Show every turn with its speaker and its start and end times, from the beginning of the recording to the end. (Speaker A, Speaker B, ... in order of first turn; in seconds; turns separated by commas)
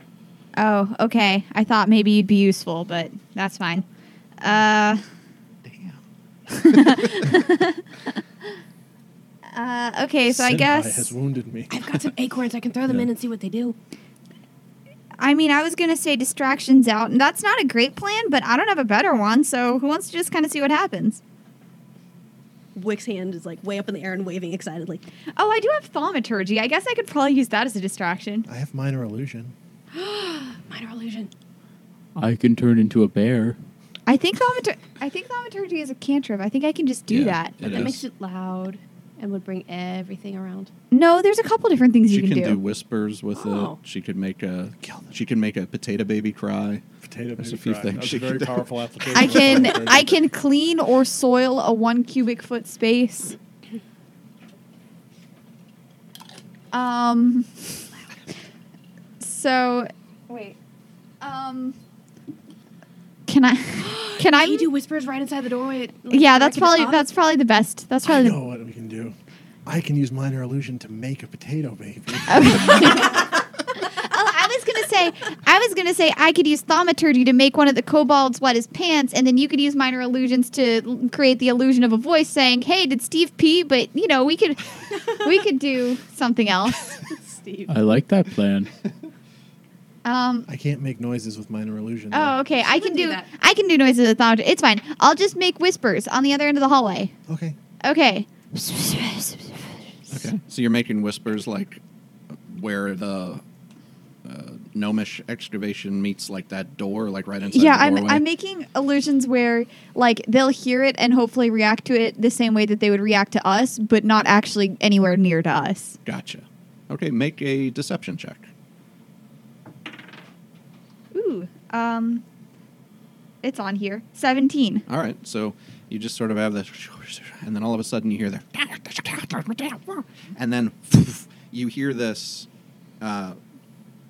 Speaker A: 0.6-3.8, Speaker A: 4.4-5.0, Speaker B: 5.6-6.0, Speaker A: 6.5-8.2, Speaker A: 9.5-11.1, Speaker C: 10.3-11.9, Speaker D: 11.7-13.8, Speaker A: 15.2-21.2, Speaker D: 22.7-25.0, Speaker A: 25.3-28.4, Speaker C: 28.4-29.5, Speaker D: 29.9-31.3, Speaker E: 32.1-33.6, Speaker A: 34.0-37.9, Speaker B: 37.1-38.0, Speaker D: 37.6-40.7, Speaker A: 40.9-42.6, Speaker B: 42.1-46.8, Speaker D: 43.3-43.8, Speaker C: 44.8-45.1, Speaker C: 47.0-50.1, Speaker B: 47.4-48.7, Speaker A: 49.1-53.4, Speaker B: 49.2-49.8, Speaker A: 56.7-57.8, Speaker A: 59.2-60.6, Speaker A: 61.2-61.8, Speaker A: 63.3-64.7, Speaker D: 63.8-67.1, Speaker A: 66.1-68.4, Speaker C: 68.0-69.1, Speaker C: 69.7-73.0, Speaker A: 72.3-73.1, Speaker D: 72.8-73.2, Speaker A: 73.8-87.0, Speaker D: 87.0-87.7, Speaker E: 87.7-88.7, Speaker A: 90.0-90.5, Speaker C: 90.5-92.4, Speaker A: 92.1-97.1, Speaker D: 92.6-93.3, Speaker C: 97.3-97.5, Speaker A: 97.8-100.2, Speaker B: 100.1-101.8, Speaker B: 102.5-103.4, Speaker B: 104.2-108.2, Speaker A: 107.5-116.0, Speaker B: 116.0-118.5, Speaker A: 121.1-122.2, Speaker A: 123.4-124.8, Speaker B: 124.9-132.5, Speaker B: 133.0-133.4